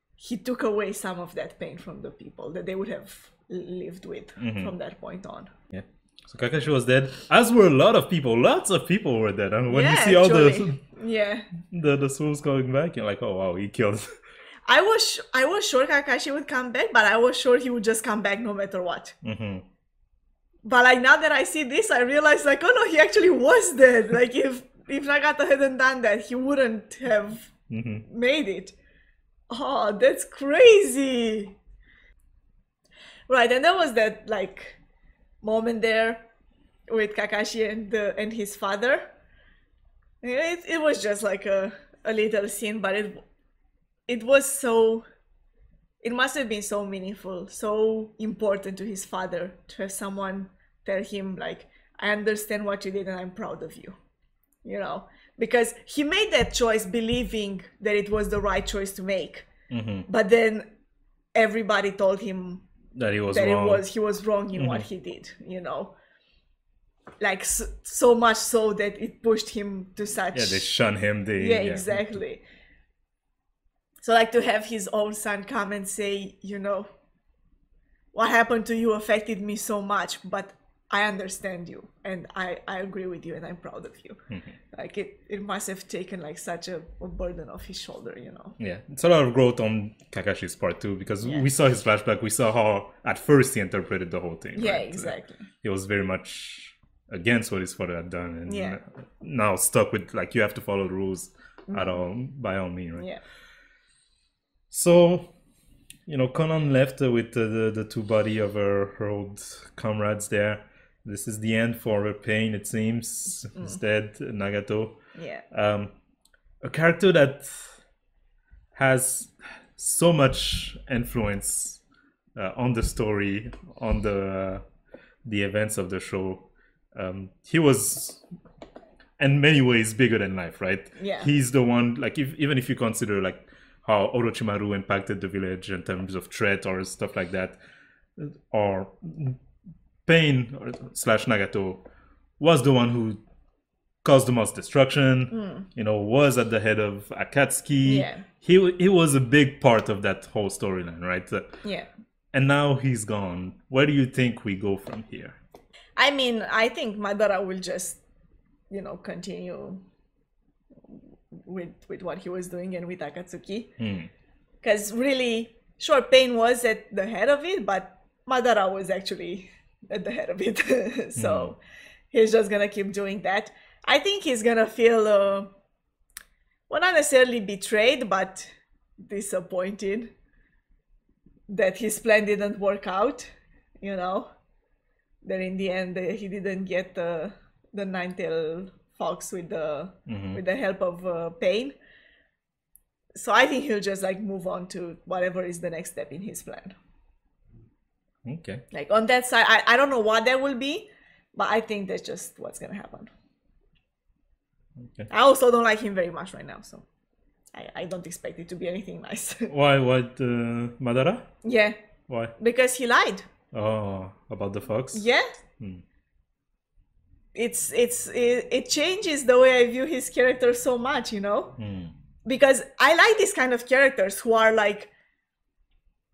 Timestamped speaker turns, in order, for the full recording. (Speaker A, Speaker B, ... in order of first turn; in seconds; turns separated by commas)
Speaker A: 0.2-5.5, Speaker B: 4.4-4.8, Speaker B: 5.7-10.8, Speaker A: 9.7-11.5, Speaker B: 11.7-14.1, Speaker A: 14.7-19.1, Speaker B: 19.2-19.6, Speaker A: 20.6-27.5, Speaker B: 27.7-28.1, Speaker A: 28.1-28.8, Speaker A: 29.5-31.6, Speaker A: 33.3-34.8, Speaker A: 35.4-36.3, Speaker A: 36.9-39.1, Speaker A: 40.2-43.2, Speaker A: 44.1-45.1, Speaker A: 46.0-54.0, Speaker A: 54.6-59.5, Speaker B: 59.7-60.1, Speaker A: 60.1-60.8, Speaker A: 61.4-62.7, Speaker B: 63.0-63.9, Speaker A: 63.3-66.0, Speaker B: 64.5-64.9, Speaker A: 67.2-70.7, Speaker B: 70.3-72.2, Speaker A: 71.4-72.4, Speaker A: 74.0-76.9, Speaker A: 78.1-84.2, Speaker A: 84.7-88.6, Speaker B: 88.6-103.1, Speaker A: 91.2-91.5, Speaker A: 94.6-95.5, Speaker A: 98.5-98.8, Speaker A: 101.7-102.0, Speaker A: 103.0-103.2, Speaker B: 104.7-105.3, Speaker B: 106.1-115.0, Speaker A: 115.2-115.4, Speaker B: 115.5-115.9, Speaker B: 116.6-117.8, Speaker B: 118.8-121.8, Speaker B: 122.3-124.7, Speaker B: 125.2-128.2, Speaker B: 129.2-137.6, Speaker A: 131.0-131.3, Speaker B: 138.2-139.4, Speaker B: 140.1-141.8, Speaker B: 142.4-143.2, Speaker B: 144.0-151.6, Speaker A: 145.3-145.7, Speaker A: 147.8-148.3, Speaker A: 151.6-151.9, Speaker B: 152.3-155.4, Speaker A: 156.0-158.0, Speaker A: 158.7-159.8, Speaker A: 160.9-163.7, Speaker B: 163.8-164.1, Speaker A: 164.6-171.6, Speaker B: 171.2-171.5, Speaker A: 172.1-175.5, Speaker A: 176.7-180.1, Speaker A: 181.5-184.3, Speaker A: 185.2-191.8, Speaker B: 190.1-190.4, Speaker A: 193.2-196.8, Speaker B: 198.2-198.6, Speaker A: 198.7-203.1, Speaker A: 205.1-206.9, Speaker A: 207.5-209.5, Speaker B: 209.5-211.3, Speaker A: 211.4-211.8, Speaker B: 212.1-212.3, Speaker A: 212.4-213.3, Speaker B: 213.5-215.1, Speaker A: 214.9-215.3, Speaker B: 215.6-215.8, Speaker A: 217.3-221.6, Speaker B: 221.6-221.9, Speaker A: 222.2-224.9